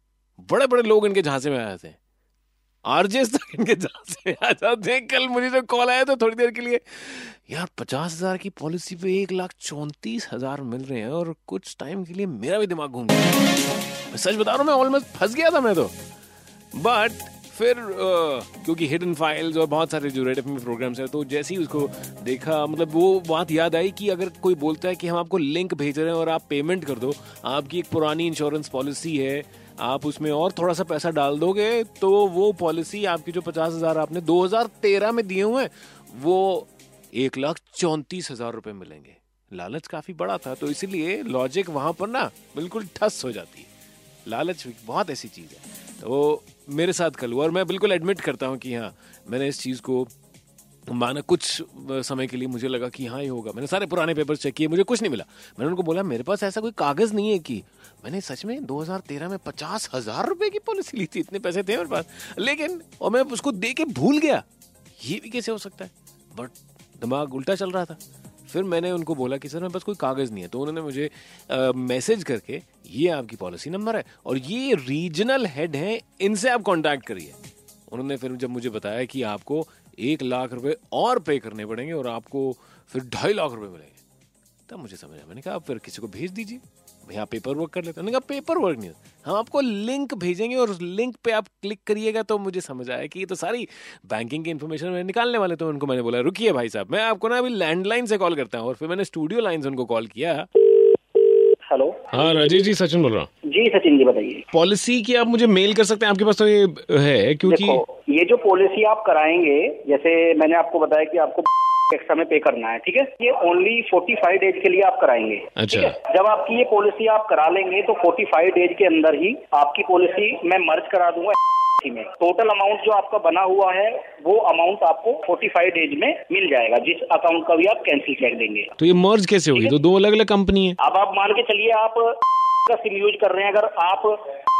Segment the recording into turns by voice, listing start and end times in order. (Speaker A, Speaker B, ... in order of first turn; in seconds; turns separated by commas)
Speaker A: 0.4-2.0, Speaker A: 2.9-13.3, Speaker A: 14.1-15.9, Speaker A: 16.7-43.7, Speaker A: 44.2-50.1, Speaker A: 50.9-64.4, Speaker A: 65.0-77.4, Speaker A: 77.9-84.0, Speaker A: 84.7-100.5, Speaker B: 101.6-102.2, Speaker A: 102.1-103.3, Speaker B: 103.5-104.5, Speaker A: 104.5-107.8, Speaker B: 107.5-128.7, Speaker A: 115.6-116.0, Speaker A: 128.8-130.8, Speaker B: 130.8-134.2